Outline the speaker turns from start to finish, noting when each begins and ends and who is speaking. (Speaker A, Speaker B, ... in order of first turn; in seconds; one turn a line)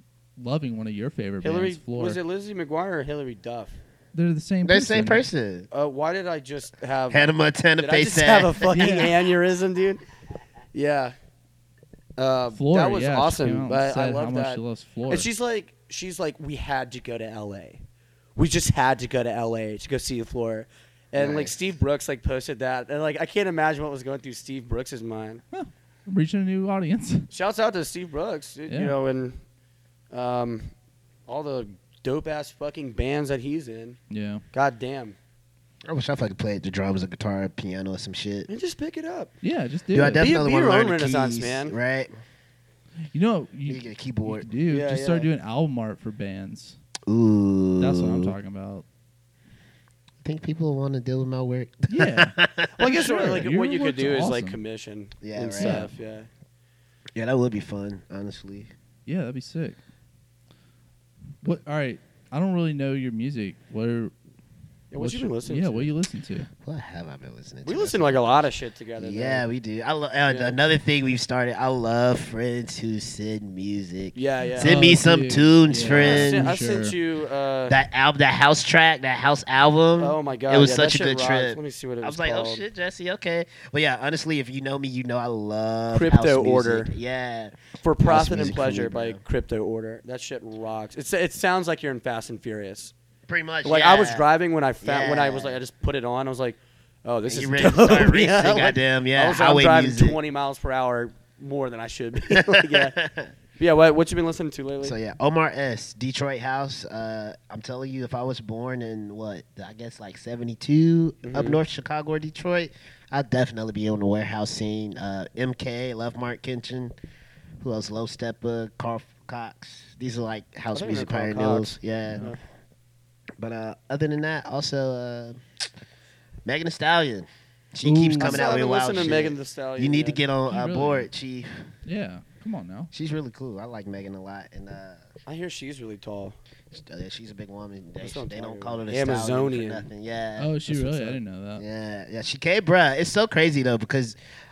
Speaker A: 0.4-2.2
Speaker B: 1.4-3.8
Speaker A: 4.1-5.2
Speaker C: 4.6-5.7
Speaker B: 5.7-10.0
Speaker C: 7.1-9.1
Speaker A: 8.8-9.2
Speaker B: 10.7-11.2
Speaker B: 12.2-17.8
Speaker A: 12.5-15.3
Speaker B: 18.4-25.4
Speaker C: 21.1-21.6
Speaker A: 25.5-27.3
Speaker B: 27.3-29.4
Speaker A: 28.7-28.9
Speaker B: 30.1-30.7
Speaker B: 31.3-34.0
Speaker A: 34.1-34.4
Speaker B: 34.5-35.2
Speaker C: 35.9-38.5
Speaker B: 38.5-39.3
Speaker A: 39.4-40.3
Speaker C: 39.9-42.1
Speaker B: 40.2-41.8
Speaker A: 43.1-46.8
Speaker C: 43.7-44.5
Speaker B: 44.7-45.3
Speaker C: 47.1-48.3
Speaker A: 47.8-48.9
Speaker C: 50.2-52.7
Speaker A: 51.9-54.6
Speaker B: 52.8-56.3
Speaker C: 55.2-55.9
Speaker A: 55.6-55.9
Speaker C: 57.1-58.7
Speaker A: 59.1-59.8
Speaker A: 61.4-64.1
Speaker B: 64.9-65.9
Speaker A: 65.0-66.5
Speaker C: 66.6-76.5
Speaker B: 67.7-69.5
Speaker B: 70.3-70.6
Speaker B: 74.2-74.8
Speaker A: 74.5-77.0
Speaker B: 75.8-77.8
Speaker C: 77.7-89.2
Speaker B: 80.0-82.6
Speaker B: 85.9-86.9
Speaker B: 87.8-92.9
Speaker C: 93.3-94.3
Speaker B: 93.6-103.0
Speaker C: 94.8-95.6
Speaker C: 97.3-100.2
Speaker C: 102.3-103.3
Speaker B: 103.6-105.0
Speaker C: 104.8-116.9
Speaker B: 111.2-111.6
Speaker C: 117.6-122.3
Speaker B: 120.7-122.4
Speaker A: 122.1-122.3
Speaker C: 123.4-125.4
Speaker C: 126.5-131.5
Speaker A: 127.8-128.4
Speaker B: 128.2-130.2
Speaker A: 130.5-131.1
Speaker A: 131.9-132.9
Speaker C: 132.9-135.1
Speaker B: 135.3-136.4
Speaker C: 136.7-144.2
Speaker B: 138.0-139.9
Speaker A: 140.4-141.6